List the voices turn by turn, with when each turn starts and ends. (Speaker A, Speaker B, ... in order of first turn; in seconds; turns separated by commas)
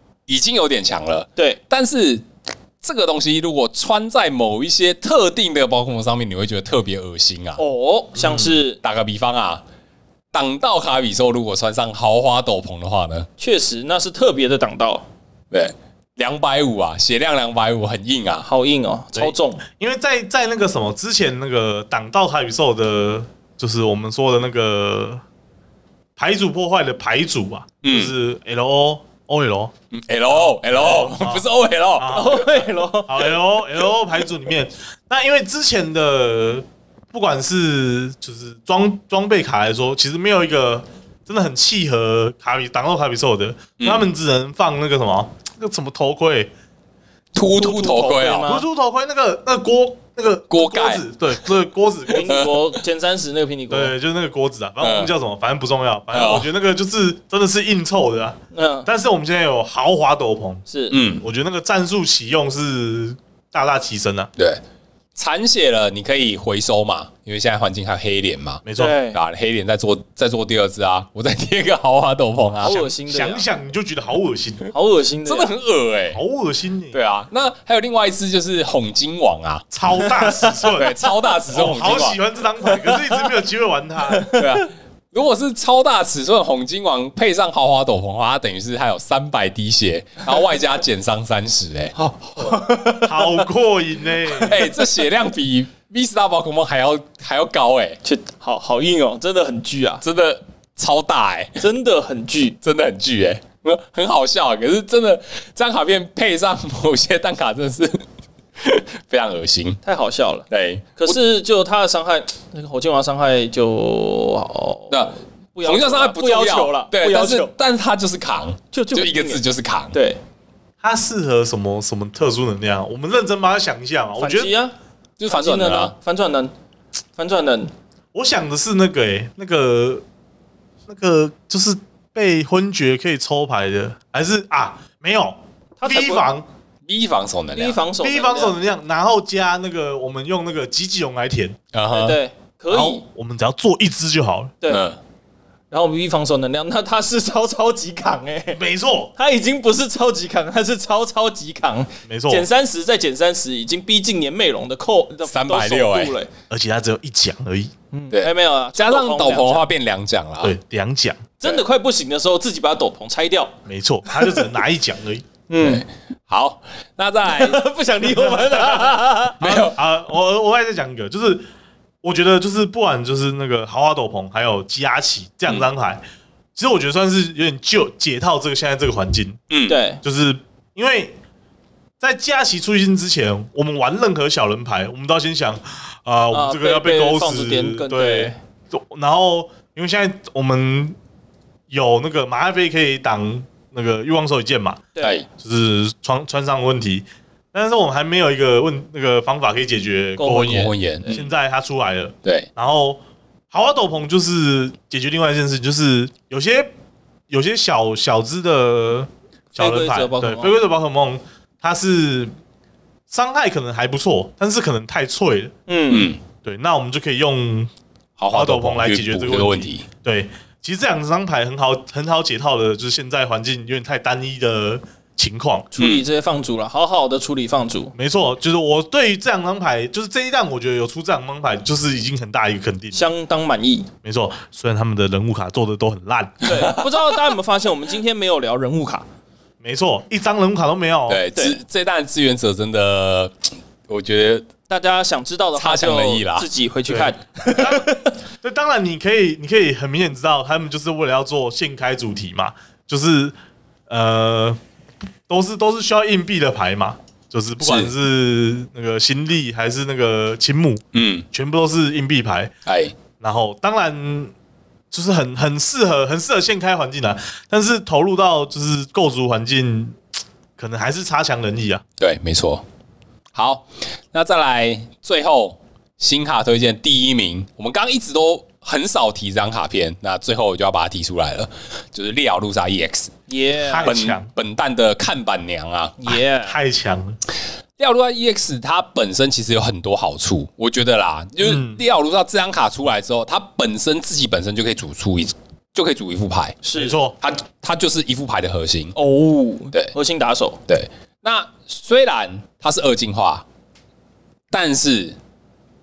Speaker A: 0.3-2.3, Speaker A: 2.8-7.6, Speaker B: 7.6-8.8, Speaker C: 8.2-8.6, Speaker A: 8.8-9.6, Speaker A: 10.3-13.3, Speaker B: 13.4-15.1, Speaker A: 15.5-18.5, Speaker B: 18.4-19.6, Speaker C: 19.1-25.2, Speaker C: 26.2-29.7, Speaker A: 27.8-28.1, Speaker A: 29.9-32.4, Speaker C: 30.3-31.4, Speaker C: 32.0-46.5, Speaker B: 32.1-33.3, Speaker A: 43.8-44.1, Speaker A: 47.3-48.5, Speaker B: 47.4-48.6, Speaker C: 48.5-52.4, Speaker A: 50.5-51.0, Speaker B: 52.1-53.9, Speaker A: 52.2-52.8, Speaker C: 53.7-60.6, Speaker A: 54.8-55.1, Speaker A: 56.1-56.5, Speaker B: 58.5-58.9, Speaker B: 60.7-61.0, Speaker A: 60.9-61.2, Speaker C: 61.2-64.3, Speaker A: 65.1-72.8, Speaker C: 68.6-69.0, Speaker B: 68.7-69.2, Speaker B: 72.6-73.5, Speaker C: 72.6-74.7, Speaker B: 74.7-75.5, Speaker A: 75.2-76.2, Speaker C: 76.1-77.0, Speaker A: 76.9-79.7, Speaker C: 79.7-81.0, Speaker B: 80.0-80.5, Speaker A: 80.6-82.2, Speaker C: 81.5-84.4, Speaker B: 84.1-84.6, Speaker A: 84.4-92.6, Speaker B: 92.0-93.4, Speaker C: 93.0-94.7, Speaker A: 94.4-98.0, Speaker B: 98.0-100.0, Speaker A: 100.0-101.6, Speaker B: 101.6-102.6, Speaker A: 102.6-108.0, Speaker A: 108.6-109.8, Speaker B: 109.8-117.5, Speaker A: 110.5-111.2, Speaker A: 114.9-119.9, Speaker B: 118.7-120.2, Speaker C: 120.8-124.5, Speaker B: 124.2-124.7, Speaker A: 125.2-125.9, Speaker B: 125.2-126.5, Speaker B: 127.2-127.7, Speaker C: 128.1-130.0, Speaker C: 130.9-136.4, Speaker B: 135.8-136.3, Speaker A: 136.8-137.8, Speaker B: 137.5-138.6, Speaker C: 138.0-141.6, Speaker A: 141.7-142.2, Speaker B: 141.9-143.0, Speaker C: 142.7-144.6, Speaker A: 144.7-145.0, Speaker B: 145.7-148.6, Speaker C: 148.5-149.1, Speaker B: 149.2-156.3, Speaker C: 152.1-152.5, Speaker A: 155.2-156.1, Speaker C: 156.5-157.7, Speaker B: 157.9-159.6, Speaker A: 158.1-160.6, Speaker C: 160.4-161.6, Speaker B: 161.4-163.5, Speaker C: 163.7-165.2, Speaker B: 164.1-164.4, Speaker B: 165.5-165.8, Speaker A: 165.6-167.6, Speaker B: 167.2-169.7, Speaker C: 168.0-171.4, Speaker A: 169.4-169.8, Speaker C: 172.0-176.0, Speaker C: 176.6-179.4, Speaker A: 179.5-179.8, Speaker B: 179.7-180.0, Speaker C: 180.0-181.1, Speaker C: 182.0-190.9, Speaker B: 186.3-188.3, Speaker C: 191.7-203.0, Speaker B: 194.9-195.2, Speaker A: 195.0-195.3, Speaker B: 200.2-201.3, Speaker A: 200.3-201.1, Speaker A: 202.2-202.5, Speaker C: 203.5-206.7, Speaker C: 207.3-212.3, Speaker B: 209.6-210.6, Speaker C: 213.1-215.5, Speaker B: 215.7-216.1, Speaker A: 215.9-216.2, Speaker C: 216.4-217.7, Speaker A: 218.2-219.8, Speaker C: 218.3-225.7, Speaker B: 225.7-227.9, Speaker A: 225.8-226.0, Speaker C: 227.9-233.1, Speaker B: 232.9-233.9, Speaker C: 234.0-236.7, Speaker B: 236.4-239.1, Speaker A: 236.5-237.1, Speaker C: 239.6-241.2, Speaker A: 241.1-244.5, Speaker B: 244.7-248.1, Speaker A: 245.5-246.5, Speaker C: 246.9-253.3, Speaker C: 253.9-254.6, Speaker C: 255.3-262.5, Speaker A: 257.6-257.9, Speaker A: 260.9-261.2, Speaker A: 262.6-262.9, Speaker C: 263.2-264.3, Speaker C: 264.9-270.0, Speaker C: 270.6-271.8, Speaker A: 272.0-272.6, Speaker A: 273.3-283.1, Speaker B: 283.3-283.9, Speaker C: 283.6-284.3, Speaker A: 283.8-286.2, Speaker B: 286.0-286.6, Speaker C: 286.4-287.2, Speaker A: 287.8-296.6, Speaker C: 291.4-291.8, Speaker B: 296.6-297.0, Speaker C: 296.7-297.2, Speaker A: 297.2-298.9, Speaker B: 298.9-300.6, Speaker A: 300.7-303.4, Speaker A: 304.5-305.2